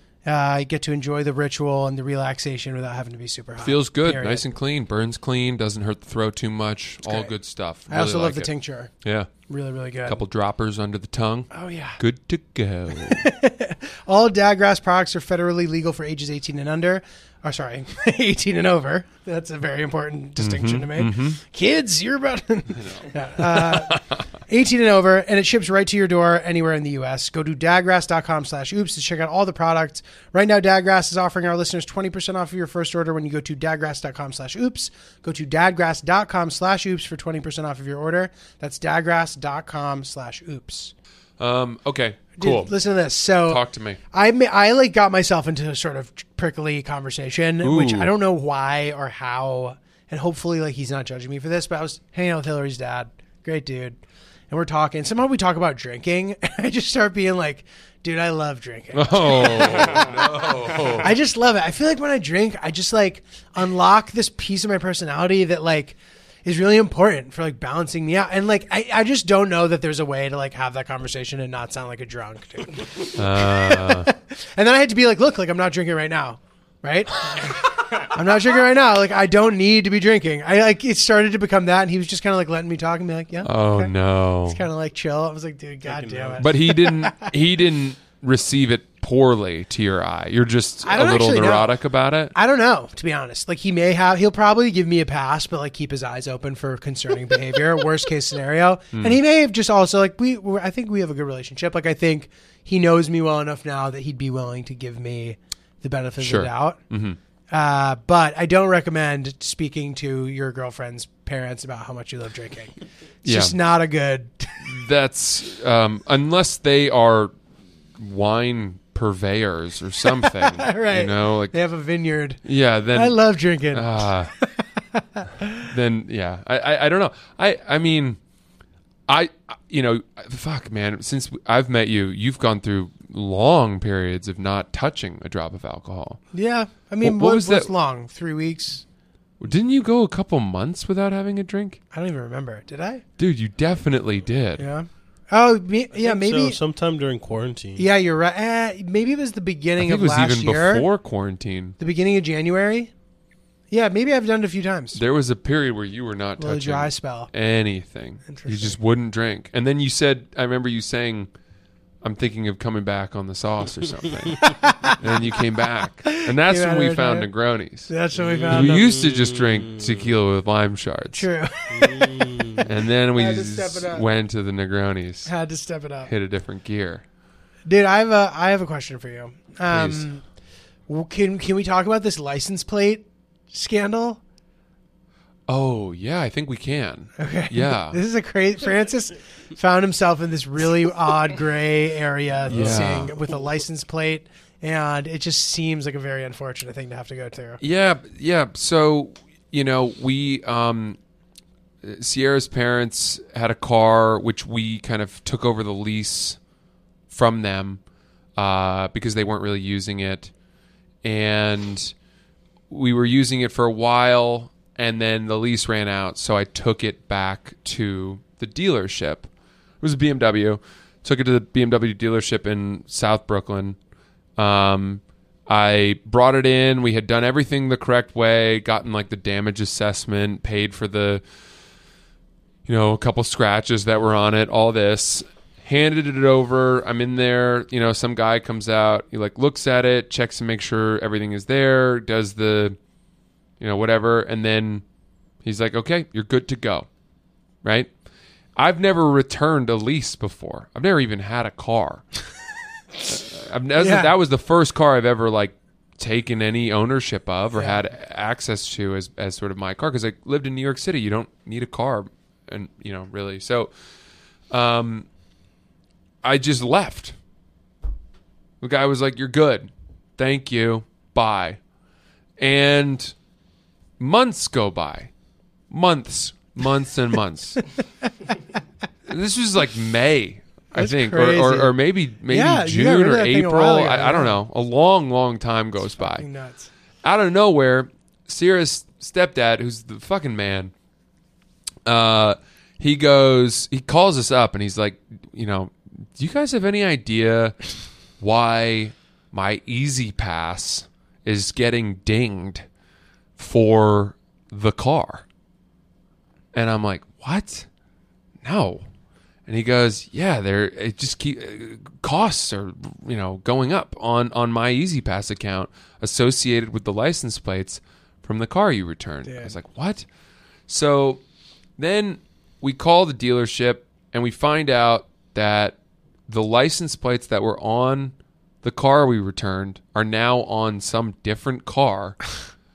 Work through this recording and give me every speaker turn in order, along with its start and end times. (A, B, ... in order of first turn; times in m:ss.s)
0:00.2-0:04.4 A
0:03.6-0:08.5 B
0:07.0-0:07.3 A
0:07.9-0:08.9 A
0:09.0-0:09.3 B
0:09.5-0:10.2 A
0:10.0-0:13.3 B
0:11.5-0:12.0 A
0:13.0-0:40.9 A
0:20.4-0:21.4 B
0:22.8-0:24.2 B
0:41.4-0:42.7 B
0:42.4-0:54.0 A
0:43.4-0:44.0 B
0:47.6-0:48.1 B
0:54.5-1:23.9 A
0:58.9-1:01.1 B
1:13.1-1:14.1 B
1:23.4-1:24.6 B
1:24.4-1:27.3 A
1:25.8-1:26.5 C
1:26.4-1:32.3 B
1:30.8-1:31.7 A
1:32.3-1:46.8 A
1:38.9-1:39.2 B
1:46.2-1:47.2 B
1:47.5-1:54.8 A
1:53.2-1:53.6 B
1:54.6-1:57.3 B
1:58.0-2:01.5 B
2:00.1-2:05.7 A
2:02.4-2:03.2 B
2:03.7-2:04.3 B
2:05.7-2:08.2 B
2:09.1-2:16.2 B
2:16.3-2:18.8 A
2:17.0-2:17.7 B
2:19.4-2:21.8 B
2:21.9-2:23.0 A
2:23.2-2:24.6 B
2:24.6-2:26.6 A
2:25.9-2:27.8 C
2:27.8-2:30.9 A
2:29.8-2:31.8 B
2:31.8-2:32.9 A
2:33.7-2:35.0 A
2:34.9-2:41.3 B
2:36.4-2:37.3 A
2:38.2-2:38.8 A
2:42.0-2:47.9 B
2:44.4-2:45.4 A
2:46.0-2:47.3 A
2:47.9-2:48.9 A
2:48.1-2:50.1 C
2:48.5-2:51.3 B
2:51.1-2:54.0 A
2:51.7-2:52.7 C
2:52.6-2:55.3 B
2:55.2-2:56.1 A
2:56.0-2:57.0 B
2:57.6-3:00.2 A
2:59.7-3:00.1 B
3:00.9-3:04.2 A
3:05.5-3:08.0 B
3:07.2-3:17.6 A
3:12.5-3:13.1 B
3:17.6-3:21.0 B
3:21.8-3:26.4 B
3:27.1-3:27.8 B
3:28.4-3:30.3 B
3:31.0-3:31.9 B
3:32.7-3:39.3 B
3:39.8-3:43.8 B
3:44.4-3:51.2 B
3:52.6-4:02.8 B
4:03.6-4:04.8 B
4:05.4-4:06.9 B
4:07.6-4:07.9 B
4:08.6-4:12.0 B
4:13.1-4:23.7 B
4:13.8-4:14.1 A
4:24.5-4:25.1 B
4:26.2-4:27.2 B
4:28.6-4:31.6 B
4:32.4-4:33.1 B
4:34.0-4:35.1 B
4:35.7-4:37.6 B
4:39.1-4:46.3 B
4:40.7-4:41.7 A
4:42.3-4:44.4 A
4:46.0-4:46.7 A
4:47.0-4:50.7 B
4:51.8-4:57.6 B
4:58.2-5:02.6 B
5:03.4-5:05.2 B
5:06.5-5:07.7 B
5:08.4-5:08.8 B
5:09.5-5:20.0 B
5:19.2-5:19.5 A
5:20.7-5:21.2 B
5:21.8-5:25.8 B
5:26.3-5:32.2 B